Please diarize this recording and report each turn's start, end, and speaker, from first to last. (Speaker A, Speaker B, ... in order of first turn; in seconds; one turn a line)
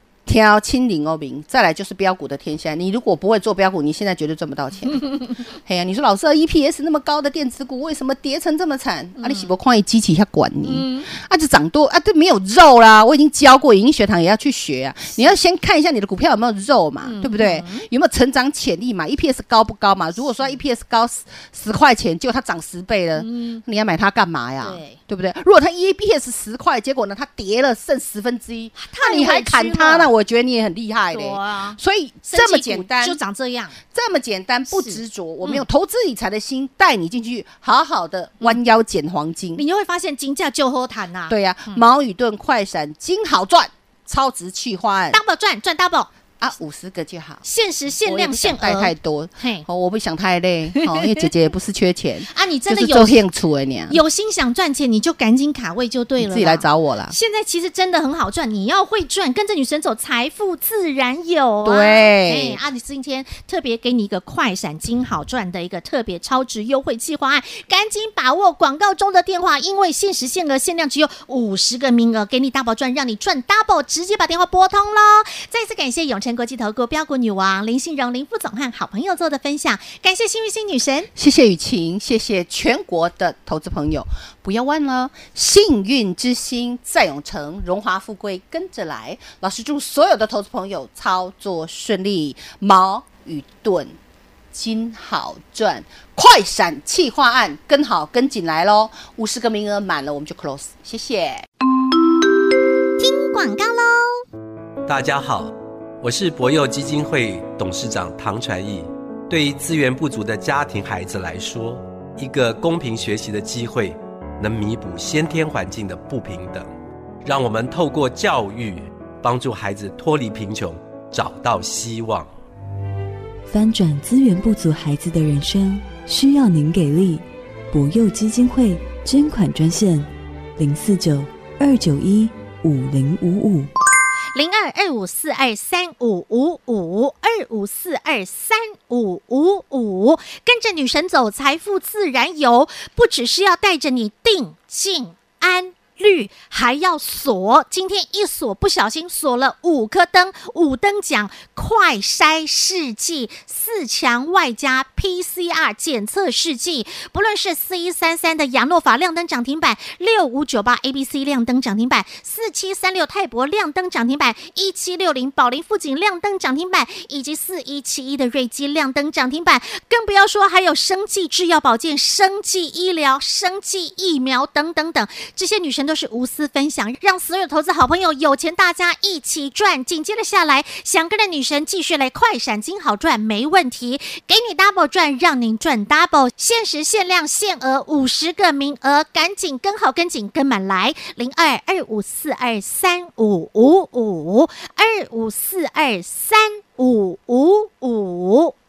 Speaker A: 0.2-33.2
Speaker B: 9.2-9.5
Speaker B: 10.6-11.1
Speaker B: 17.0-17.9
Speaker B: 23.1-23.6
Speaker B: 24.6-25.0
Speaker B: 28.8-30.1
Speaker B: 31.1-33.8
Speaker A: 33.9-39.6
Speaker B: 34.7-35.6
Speaker B: 39.5-41.8
Speaker A: 41.3-45.2
Speaker B: 45.1-46.1
Speaker A: 46.4-47.4
Speaker B: 47.4-49.6
Speaker A: 48.0-54.0
Speaker B: 50.7-51.3
Speaker B: 52.3-53.2
Speaker B: 53.9-81.1
Speaker A: 56.2-57.1
Speaker A: 61.6-62.6
Speaker A: 81.1-94.0
Speaker A: 94.5-101.5
Speaker B: 103.0-104.2
Speaker C: 104.9-116.7
Speaker C: 117.2-122.3
Speaker D: 123.5-133.7
Speaker B: 134.3-198.5